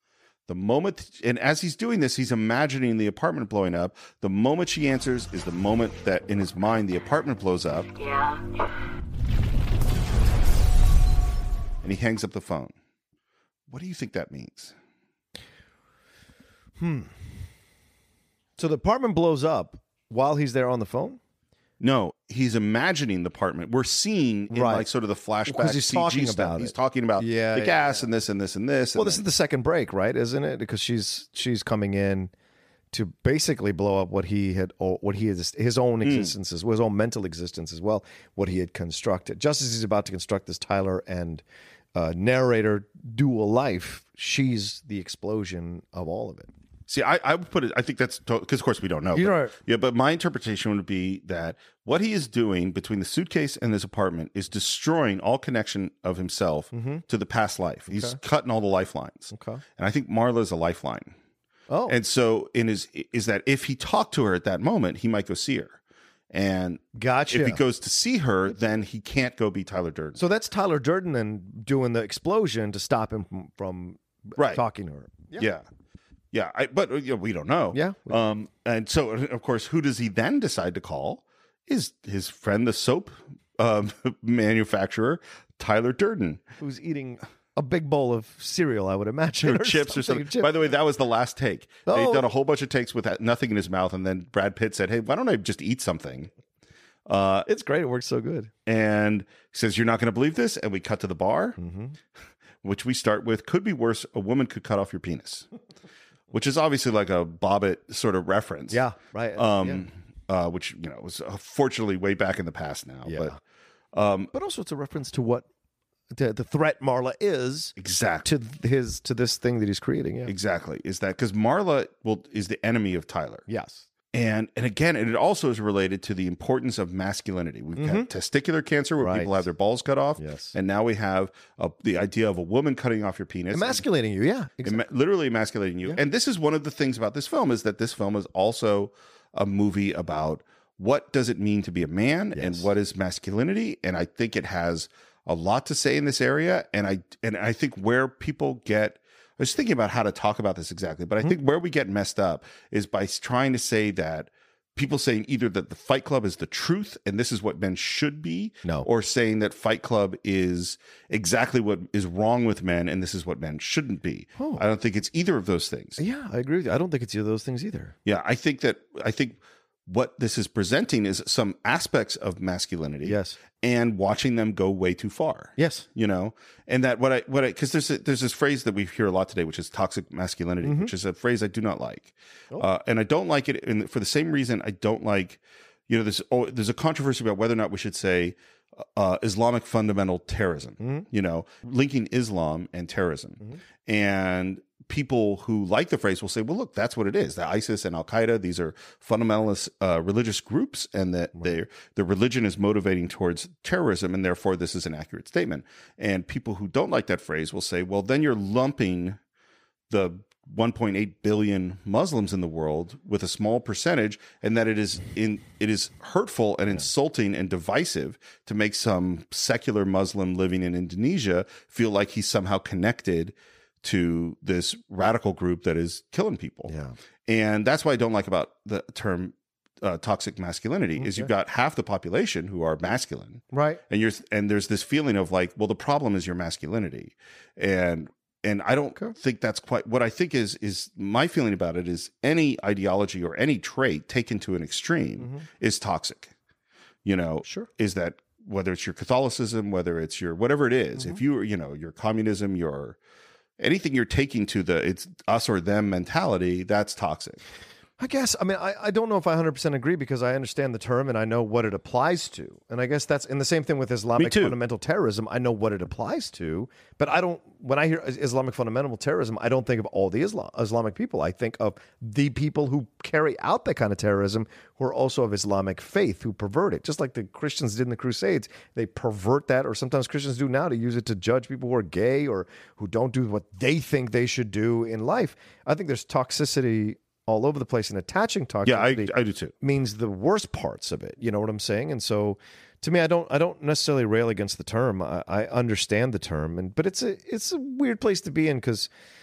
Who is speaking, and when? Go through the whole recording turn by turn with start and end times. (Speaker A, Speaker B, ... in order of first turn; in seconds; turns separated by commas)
Speaker A: 0.5-7.9, Speaker A: 11.8-12.7, Speaker A: 13.7-14.8, Speaker B: 16.8-17.2, Speaker B: 18.6-21.2, Speaker A: 21.8-29.2, Speaker B: 24.5-24.9, Speaker B: 25.5-28.0, Speaker B: 28.9-32.3, Speaker B: 32.9-41.4, Speaker A: 36.0-36.3, Speaker B: 42.0-46.5, Speaker A: 46.9-61.1, Speaker B: 49.1-49.6, Speaker B: 56.7-57.0, Speaker B: 57.9-58.2, Speaker B: 59.3-59.6, Speaker B: 61.7-62.0, Speaker A: 61.9-65.8, Speaker A: 66.3-70.2, Speaker B: 67.0-67.6, Speaker B: 70.2-75.5, Speaker A: 74.4-74.6, Speaker A: 75.4-75.7, Speaker A: 76.3-86.4, Speaker B: 77.7-78.2, Speaker B: 86.6-90.8, Speaker A: 89.4-96.3, Speaker B: 91.9-92.3, Speaker A: 97.1-97.5, Speaker B: 97.5-98.5, Speaker A: 98.7-101.6, Speaker B: 101.6-102.0, Speaker A: 102.6-105.5, Speaker A: 106.3-113.3, Speaker B: 108.7-109.8, Speaker B: 113.1-113.4, Speaker A: 113.9-114.3, Speaker B: 114.3-115.5, Speaker B: 116.1-117.7, Speaker A: 117.8-118.3, Speaker B: 118.2-120.3, Speaker A: 120.3-123.5, Speaker B: 123.5-123.9, Speaker A: 124.1-133.8, Speaker B: 127.8-128.1, Speaker B: 129.0-129.4, Speaker B: 130.2-130.6, Speaker B: 133.5-134.8, Speaker A: 134.6-166.0, Speaker B: 142.3-142.7, Speaker B: 164.4-164.7, Speaker B: 166.0-167.9, Speaker A: 168.1-209.2, Speaker B: 173.0-173.4, Speaker B: 175.6-175.9, Speaker B: 180.6-180.9, Speaker B: 190.8-191.1, Speaker A: 209.9-226.7, Speaker B: 226.7-226.9, Speaker A: 227.3-246.3, Speaker B: 231.0-231.3, Speaker B: 233.5-233.8, Speaker B: 245.2-245.4, Speaker A: 247.1-253.0, Speaker B: 247.4-247.7, Speaker B: 251.0-251.2, Speaker A: 253.6-257.4, Speaker B: 258.0-298.9, Speaker A: 264.2-264.6, Speaker A: 288.6-289.5